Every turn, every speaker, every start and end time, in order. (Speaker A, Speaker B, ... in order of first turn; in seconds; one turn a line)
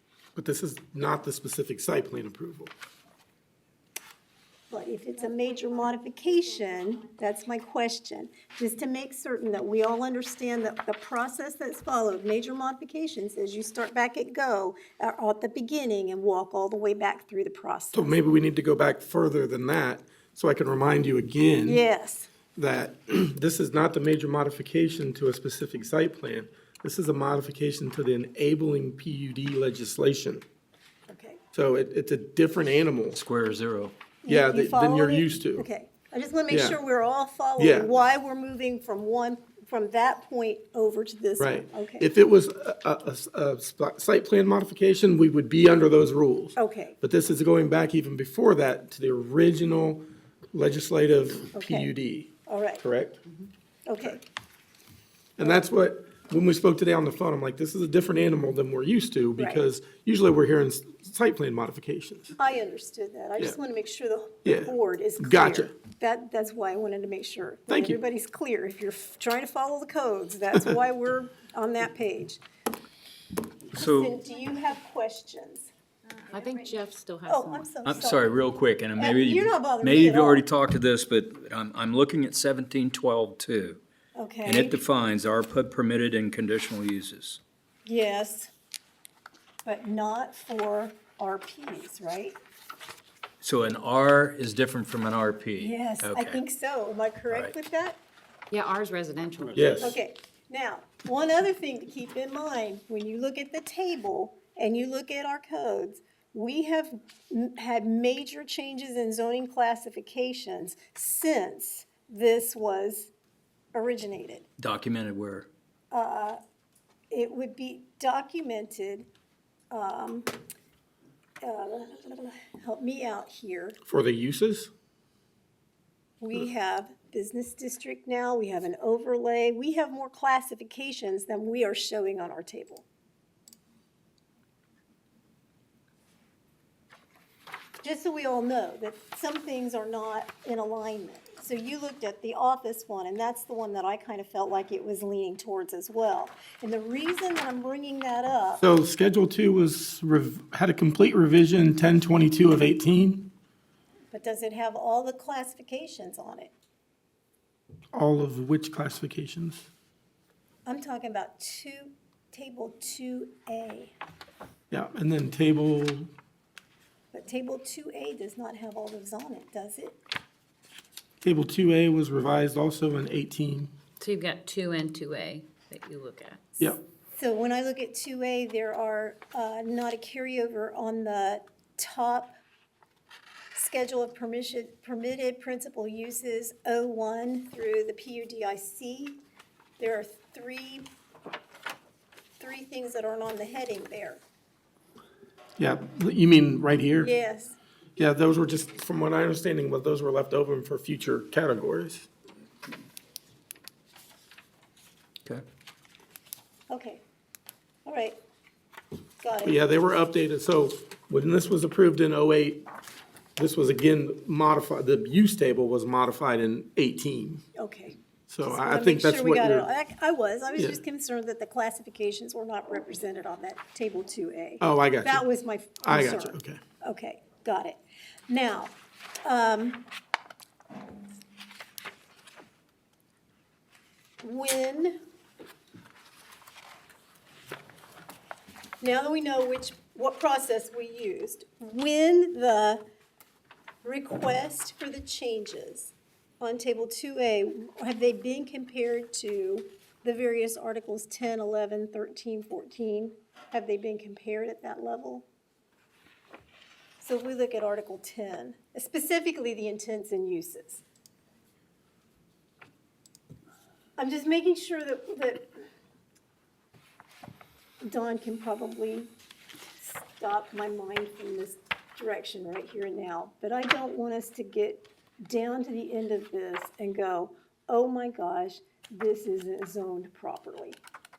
Speaker A: 0.3-2.7
Speaker B: 4.7-18.2
Speaker A: 17.9-21.8
Speaker B: 21.6-22.3
Speaker A: 22.6-30.4
Speaker B: 31.1-31.4
Speaker A: 31.5-33.2
Speaker C: 33.1-33.9
Speaker B: 34.2-42.1
Speaker A: 34.3-35.7
Speaker A: 36.5-36.8
Speaker A: 37.6-37.9
Speaker A: 41.4-53.2
Speaker B: 46.5-47.0
Speaker B: 51.5-51.9
Speaker B: 52.5-52.8
Speaker B: 53.9-54.2
Speaker A: 55.4-62.4
Speaker B: 55.4-55.6
Speaker B: 59.4-59.6
Speaker B: 62.4-72.4
Speaker A: 64.4-65.7
Speaker A: 67.7-68.0
Speaker C: 73.7-74.1
Speaker B: 73.7-75.7
Speaker D: 76.3-77.7
Speaker B: 77.3-78.3
Speaker C: 77.8-83.8
Speaker B: 79.0-80.4
Speaker B: 84.1-84.8
Speaker C: 84.4-87.4
Speaker B: 87.8-88.5
Speaker B: 89.6-92.4
Speaker C: 93.4-96.4
Speaker B: 95.6-98.0
Speaker D: 98.5-99.9
Speaker A: 99.5-100.0
Speaker B: 99.8-113.1
Speaker B: 113.7-114.4
Speaker C: 114.6-115.5
Speaker B: 115.9-116.4
Speaker B: 117.1-119.1
Speaker B: 119.7-120.3
Speaker B: 121.4-123.8
Speaker A: 123.8-124.7
Speaker B: 126.2-132.8
Speaker B: 137.8-148.6
Speaker A: 148.6-153.3
Speaker B: 154.1-156.5
Speaker A: 157.9-159.7
Speaker B: 160.7-163.9
Speaker A: 164.7-166.1
Speaker B: 167.1-170.0
Speaker A: 171.2-173.7
Speaker D: 174.0-176.4
Speaker B: 176.6-182.3
Speaker B: 183.5-189.2
Speaker B: 189.8-190.9
Speaker B: 192.4-194.2
Speaker A: 195.6-197.1
Speaker B: 197.0-197.6
Speaker A: 198.0-202.1
Speaker B: 206.7-207.0
Speaker B: 207.8-208.2
Speaker B: 209.2-209.6
Speaker A: 209.4-212.6
Speaker A: 213.4-217.4
Speaker B: 217.6-229.8
Speaker A: 218.3-219.7
Speaker A: 224.6-225.2
Speaker A: 225.8-226.6
Speaker B: 234.2-235.0
Speaker B: 238.8-242.8
Speaker B: 243.8-255.2
Speaker B: 257.0-260.8
Speaker B: 264.0-265.5
Speaker B: 267.8-269.1
Speaker B: 269.8-280.8